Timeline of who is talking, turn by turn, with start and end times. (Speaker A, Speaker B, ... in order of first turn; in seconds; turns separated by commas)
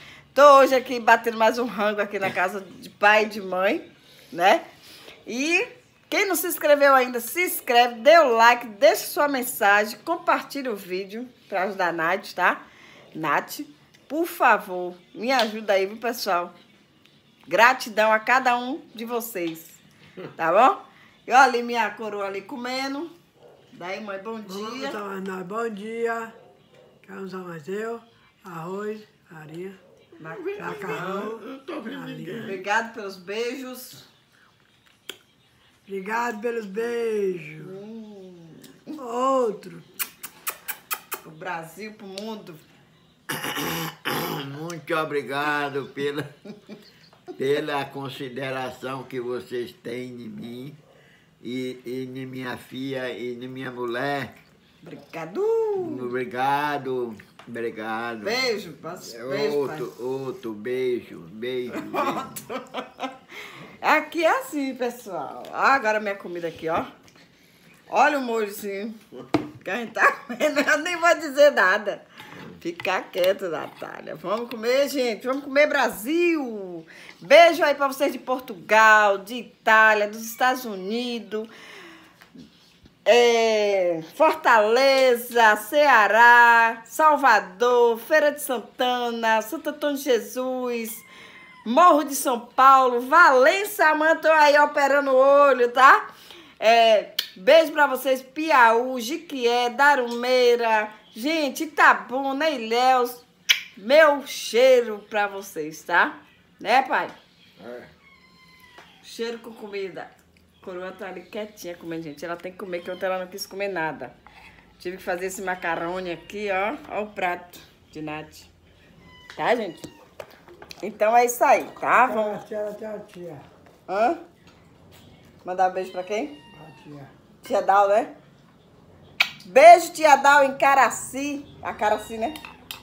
Speaker A: 0.3-4.6, Speaker A: 5.3-12.6, Speaker A: 13.1-16.5, Speaker A: 17.5-19.8, Speaker A: 20.4-23.1, Speaker A: 23.7-25.0, Speaker B: 24.4-26.4, Speaker B: 27.0-29.8, Speaker A: 30.2-31.3, Speaker C: 30.2-32.6, Speaker B: 30.6-32.5, Speaker A: 32.4-34.1, Speaker B: 35.9-37.7, Speaker A: 37.6-39.0, Speaker B: 39.0-39.9, Speaker A: 41.2-42.6, Speaker C: 43.3-46.3, Speaker C: 47.4-50.8, Speaker C: 51.4-54.4, Speaker A: 54.8-56.1, Speaker C: 55.8-62.5, Speaker A: 58.2-59.9, Speaker A: 61.7-63.1, Speaker A: 63.8-66.9, Speaker A: 67.9-69.0, Speaker A: 69.6-81.5, Speaker A: 83.0-91.1, Speaker A: 91.7-96.1, Speaker A: 96.6-103.2, Speaker A: 103.8-107.2, Speaker C: 107.6-107.9, Speaker A: 109.0-114.2, Speaker A: 114.8-118.5, Speaker A: 119.3-119.8, Speaker A: 120.8-122.4, Speaker B: 121.9-123.5, Speaker A: 123.9-124.2, Speaker A: 125.4-126.4, Speaker B: 126.5-127.1, Speaker A: 127.4-128.1, Speaker A: 129.4-132.4